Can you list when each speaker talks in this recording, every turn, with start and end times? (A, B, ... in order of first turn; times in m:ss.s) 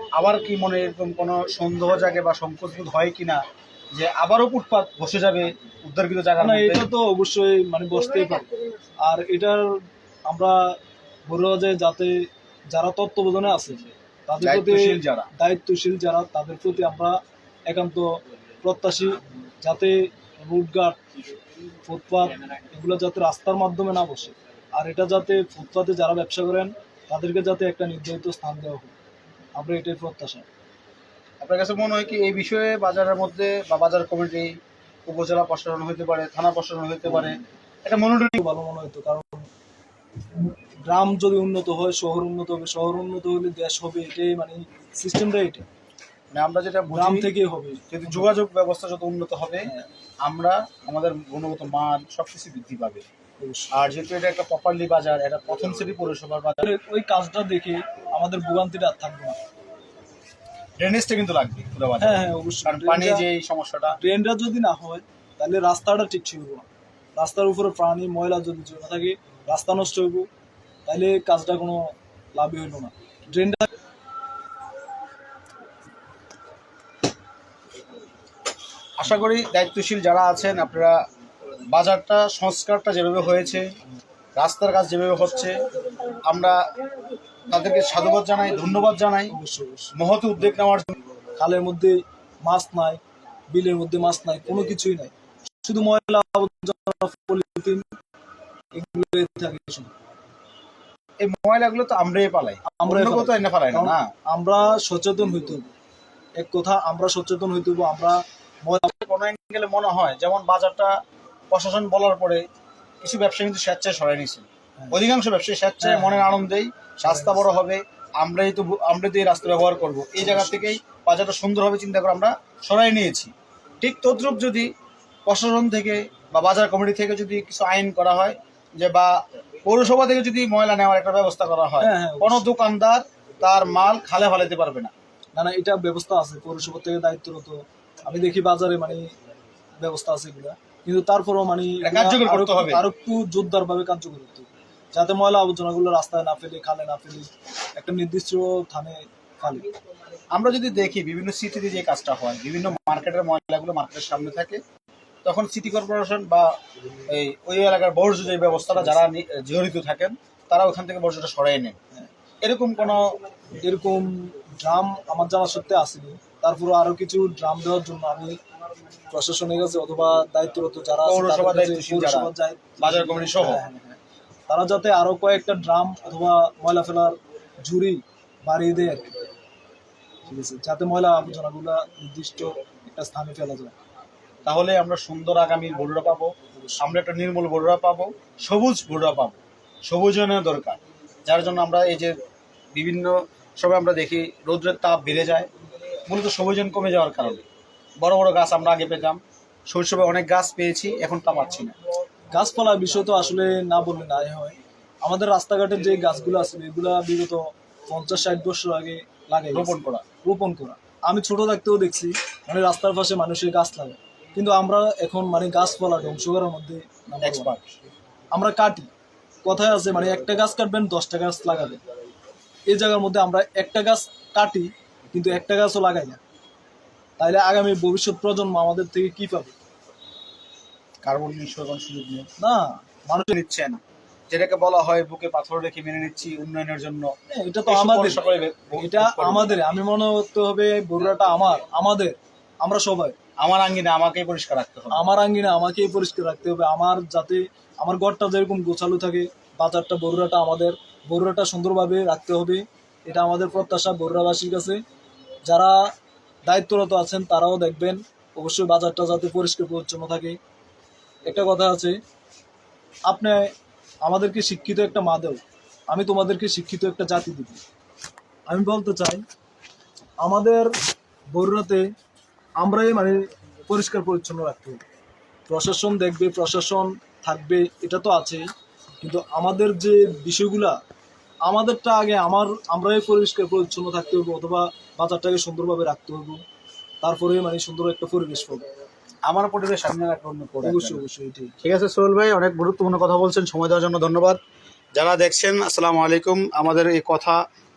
0:00.1-0:06.9 A
0:06.4-0:09.6 B
0:10.2-0:10.8 B
0:11.3-0:21.0 B
0:14.4-0:15.3 A
0:21.8-0:28.9 B
0:29.6-0:30.4 B
0:31.4-0:38.4 A
0:38.3-0:39.5 B
0:40.4-0:45.6 B
0:46.3-0:47.3 A
0:46.9-0:48.2 B
0:47.9-0:53.0 A
0:53.4-0:53.7 B
0:53.7-0:56.7 A
0:56.6-0:59.4 B
1:00.8-1:04.0 A
1:02.0-1:03.2 B
1:04.0-1:10.3 B
1:10.8-1:13.7 B
1:19.0-1:21.0 A
1:21.6-1:23.8 A
1:24.3-1:26.8 A
1:27.4-1:29.4 A
1:29.3-1:29.9 B
1:29.9-1:31.0 A
1:31.3-1:33.0 B
1:33.5-1:37.9 B
1:38.7-1:39.9 B
1:41.2-1:44.1 A
1:42.6-1:45.7 B
1:46.4-1:49.0 B
1:48.9-1:51.0 A
1:51.5-1:52.4 A
1:53.0-2:04.7 A
1:55.8-1:56.2 B
1:57.1-1:57.4 B
2:05.2-2:14.9 A
2:11.8-2:12.5 B
2:15.4-2:19.1 B
2:19.8-2:29.7 B
2:21.8-2:22.9 A
2:30.3-2:34.6 A
2:35.2-2:41.8 A
2:42.4-2:43.2 A
2:43.6-2:48.4 B
2:49.1-2:59.1 B
2:51.0-2:53.6 A
3:00.2-3:03.7 B
3:04.4-3:12.2 A
3:06.5-3:06.9 B
3:12.7-3:15.5 A
3:16.0-3:17.4 A
3:18.0-3:21.8 A
3:22.3-3:37.5 B
3:29.5-3:30.0 A
3:37.2-3:37.8 A
3:38.3-3:38.9 B
3:39.4-3:41.8 B
3:42.7-3:46.2 B
3:47.2-3:49.5 B
3:51.0-3:52.3 A
3:52.4-3:53.3 B
3:53.3-3:57.1 A
3:57.3-3:58.2 B
3:57.7-3:59.7 A
3:58.8-4:03.2 B
4:03.4-4:05.1 A
4:04.9-4:14.8 B
4:15.4-4:15.8 B
4:16.4-4:20.4 B
4:21.2-4:22.0 B
4:23.0-4:27.6 B
4:28.5-4:29.2 B
4:30.2-4:30.7 B
4:31.3-4:31.8 B
4:32.6-4:34.8 B
4:35.5-4:38.4 B
4:39.0-4:40.8 B
4:41.4-4:46.4 B
4:47.0-4:48.6 B
4:49.3-4:51.0 A
4:50.6-4:51.5 B
4:51.6-4:54.4 A
4:55.0-4:57.4 A